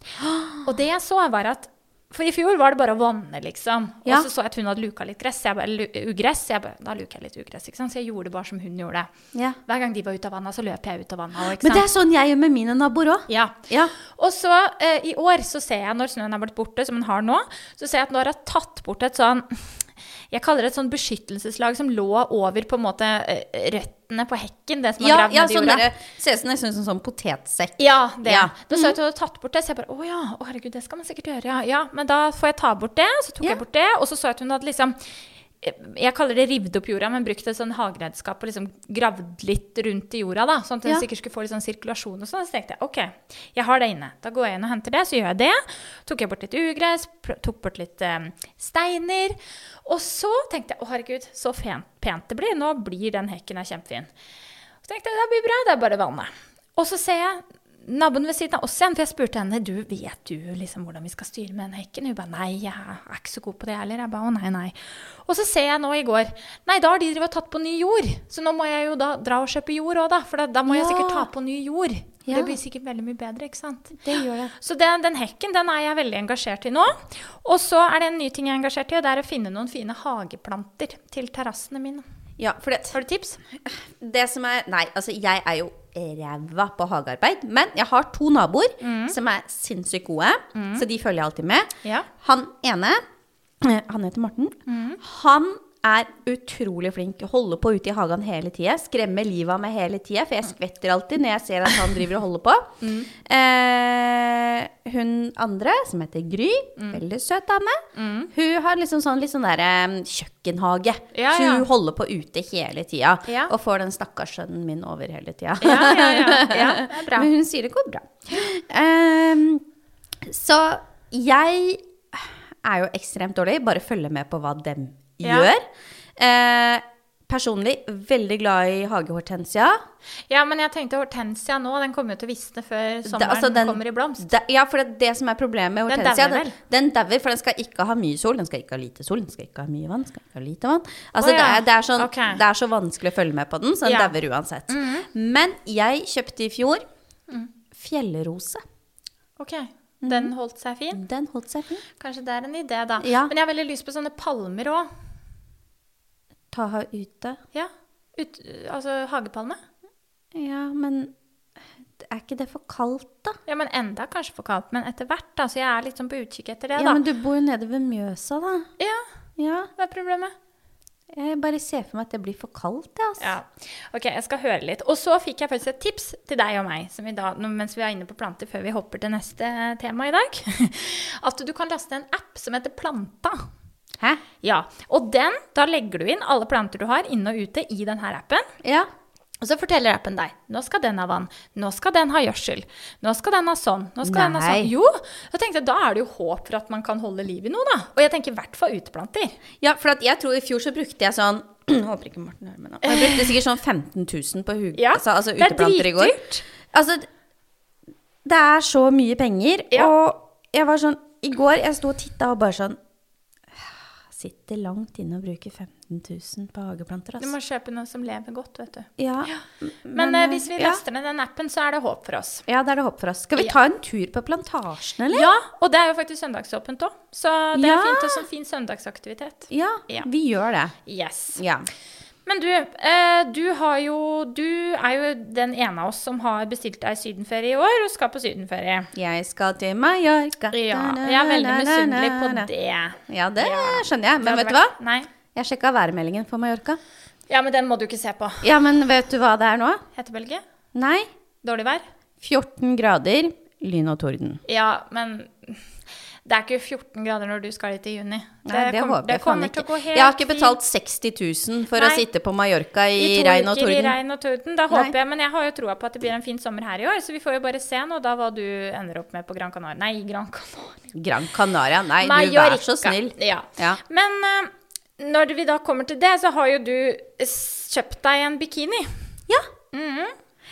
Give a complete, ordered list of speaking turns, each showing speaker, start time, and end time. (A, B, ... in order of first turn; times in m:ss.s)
0:00.2-0:00.6 A
0:00.6-0:09.1 B
0:09.3-0:09.6 A
0:09.6-0:11.9 B
0:11.6-0:13.9 A
0:13.3-0:25.8 B
0:25.0-0:29.0 A
0:27.8-0:35.0 B
0:35.6-0:54.1 B
0:54.8-1:14.0 B
1:10.7-1:11.3 A
1:12.2-1:12.5 A
1:14.0-1:14.5 A
1:14.5-1:22.0 B
1:22.4-1:23.0 A
1:22.9-1:23.4 B
1:23.5-1:33.0 A
1:28.8-1:29.2 B
1:30.5-1:30.8 B
1:33.6-1:59.6 A
1:34.7-1:35.0 B
1:42.8-1:43.1 B
1:47.9-1:48.3 B
1:51.1-1:51.6 B
1:53.3-1:53.5 B
1:55.6-1:57.3 B
2:00.2-2:09.8 A
2:05.2-2:05.5 B
2:10.3-2:14.2 B
2:13.1-2:26.8 A
2:15.9-2:16.5 B
2:21.2-2:22.4 B
2:23.8-2:24.1 B
2:24.7-2:25.1 B
2:27.7-2:28.6 A
2:29.4-2:31.0 B
2:30.0-2:30.3 A
2:30.9-2:31.8 A
2:32.0-2:34.9 B
2:33.0-2:33.3 A
2:36.5-2:37.4 A
2:37.5-2:39.6 B
2:40.3-2:41.1 A
2:42.0-2:43.4 A
2:43.5-2:47.0 B
2:46.8-2:48.7 A
2:48.8-2:49.0 B
2:49.4-2:49.7 A
2:49.8-2:50.3 B
2:51.1-2:53.3 A
2:53.2-3:03.4 B
3:04.4-3:08.5 B
3:08.6-3:08.9 A
3:09.4-3:19.4 B
3:14.0-3:14.7 A
3:19.6-3:27.1 A
3:22.8-3:23.3 B
3:24.7-3:26.4 B
3:28.2-3:32.8 A
3:33.5-3:37.3 A
3:37.2-3:42.4 B
3:39.0-3:40.8 A
3:42.5-3:45.3 A
3:45.1-3:50.1 B
3:47.5-3:48.2 A
3:49.5-3:50.7 A
3:50.8-3:51.4 B
3:51.4-3:51.7 A
3:52.2-3:58.9 B
3:58.9-4:02.5 A
4:00.5-4:05.1 B
4:03.1-4:04.8 A
4:05.3-4:06.8 A
4:07.3-4:08.5 B
4:08.4-4:09.8 A
4:10.0-4:10.4 B
4:10.7-4:11.1 A
4:11.4-4:11.8 B
4:12.2-4:14.4 A
4:14.5-4:15.6 B
4:16.2-4:20.6 B
4:18.4-4:24.0 A
4:21.8-4:22.0 B
4:22.9-4:30.8 B
4:30.9-4:33.8 A
4:32.0-4:38.9 B
4:39.7-4:40.1 B